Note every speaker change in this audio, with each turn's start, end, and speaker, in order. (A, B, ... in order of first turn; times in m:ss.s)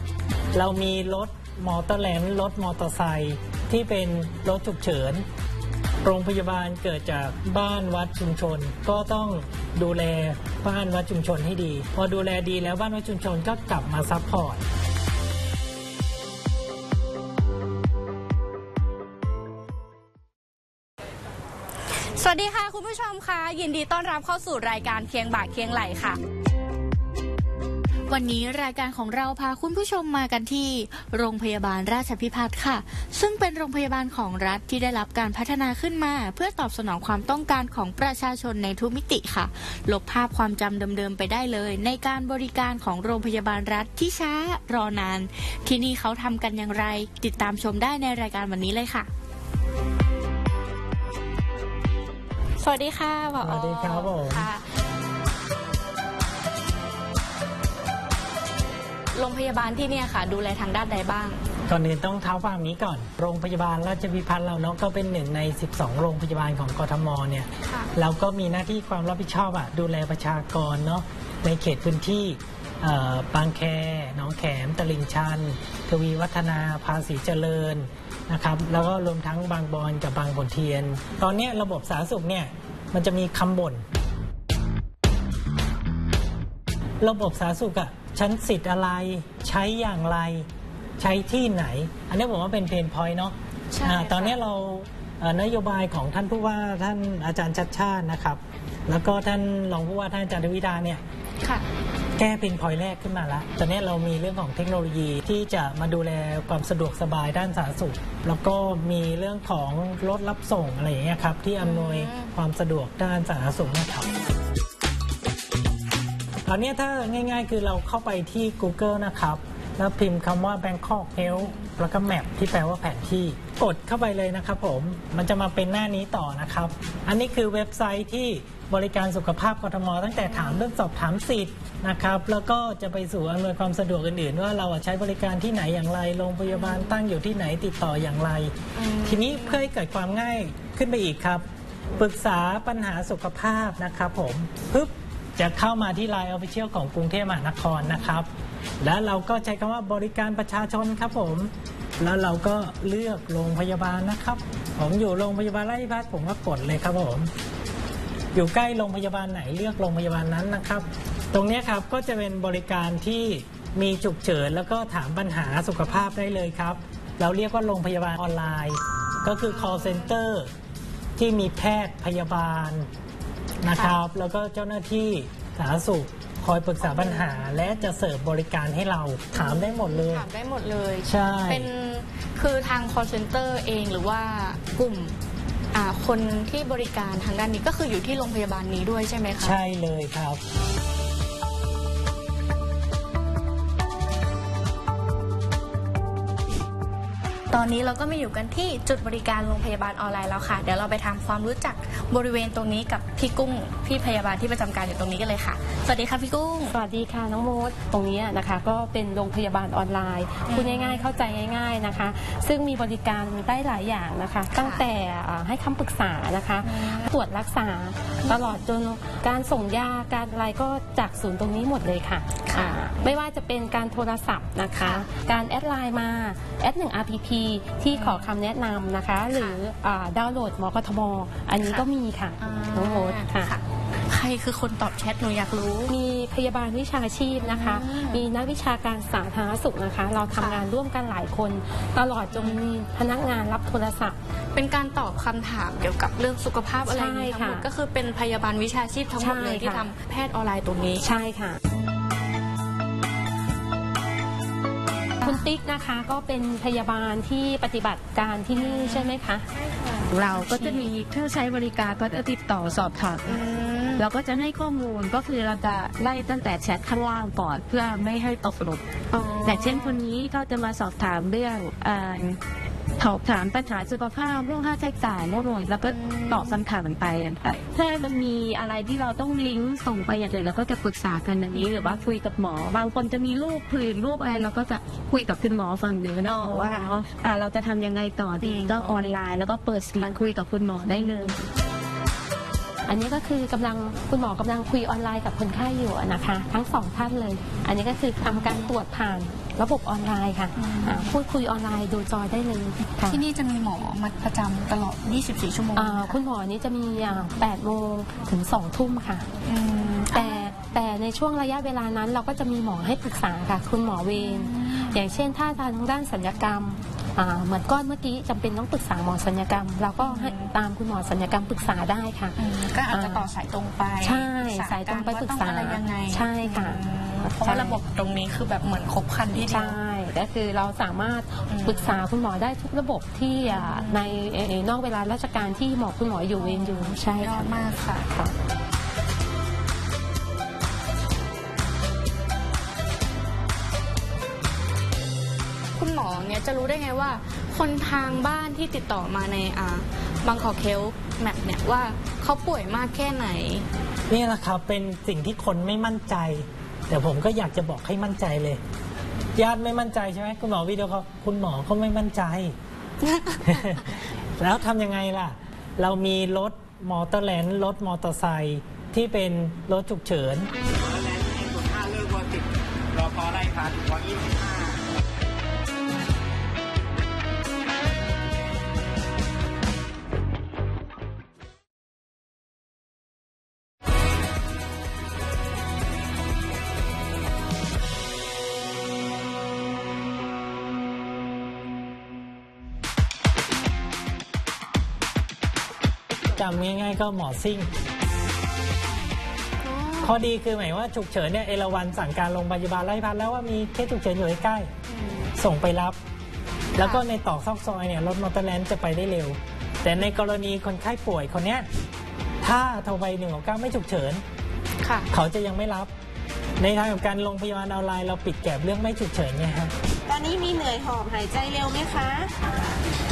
0:00.5-0:05.3 A
0:06.0-0:14.6 A
0:21.9-0:26.2 B
0:28.1-0:49.1 C
0:52.6-0:54.6 B
0:53.4-0:54.5 A
0:59.2-1:01.4 B
1:01.7-1:23.8 A
1:27.0-1:30.5 A
1:31.0-1:41.0 A
1:33.7-1:34.4 B
1:42.2-1:54.1 A
1:51.6-1:52.3 B
1:56.5-2:21.5 A
2:01.2-2:01.7 B
2:10.3-2:10.7 B
2:16.5-2:17.0 B
2:18.8-2:19.7 B
2:22.0-2:28.3 A
2:28.8-2:37.3 A
2:38.3-2:50.5 A
2:49.5-2:50.2 B
2:51.2-2:52.9 A
2:53.6-2:54.0 B
2:53.6-3:00.3 A
2:56.8-2:57.8 B
2:59.3-3:05.2 B
3:01.1-3:01.7 A
3:05.7-3:09.6 B
3:09.4-3:10.4 A
3:17.5-3:26.7 B
3:26.7-3:53.6 D
3:30.5-3:31.0 B
3:34.6-3:34.8 B
3:36.6-3:37.1 B
3:42.5-3:43.1 B
3:44.8-3:45.0 B
3:47.9-3:48.3 B
3:52.4-3:55.9 B
3:55.9-4:04.2 D
3:57.4-3:58.3 B
4:00.4-4:00.7 B
4:02.3-4:02.6 B
4:04.6-4:11.0 B
4:06.9-4:07.7 D
4:09.2-4:09.9 D
4:11.0-4:11.6 D
4:15.2-4:19.5 D
4:18.6-4:20.9 B
4:20.1-4:23.4 E
4:23.2-4:24.1 B
4:24.0-4:28.8 E
4:29.1-4:30.0 B
4:29.4-4:32.4 E
4:33.0-4:51.4 E
4:35.9-4:36.6 B
4:41.5-4:42.0 B
4:46.3-4:46.7 B
4:52.9-5:03.2 D
4:58.4-4:58.7 B
5:00.6-5:01.1 B
5:03.1-5:06.2 B
5:05.8-5:09.3 D
5:09.5-5:10.4 B
5:10.1-5:22.4 D
5:14.1-5:15.0 B
5:20.0-5:20.5 B
5:22.4-5:29.8 B
5:22.9-5:23.2 D
5:24.0-5:27.8 D
5:29.4-5:37.5 D
5:31.5-5:32.0 B
5:33.5-5:34.1 B
5:36.4-5:38.1 B
5:45.8-5:53.7 B
5:54.1-5:58.6 A
5:59.4-6:02.6 A
6:03.0-6:03.8 B
6:03.5-6:03.9 A
6:04.4-6:10.5 A
6:10.7-6:14.9 F
6:36.4-6:37.7 A
6:39.6-6:40.2 B
6:40.0-6:44.7 A
6:44.9-6:45.3 B
6:45.4-6:46.0 A
6:46.8-6:47.0 B
6:46.8-6:51.7 A
6:52.4-6:54.2 A
6:54.8-6:55.1 B
6:55.1-6:55.9 A
6:56.6-6:59.7 A
7:00.1-7:02.3 G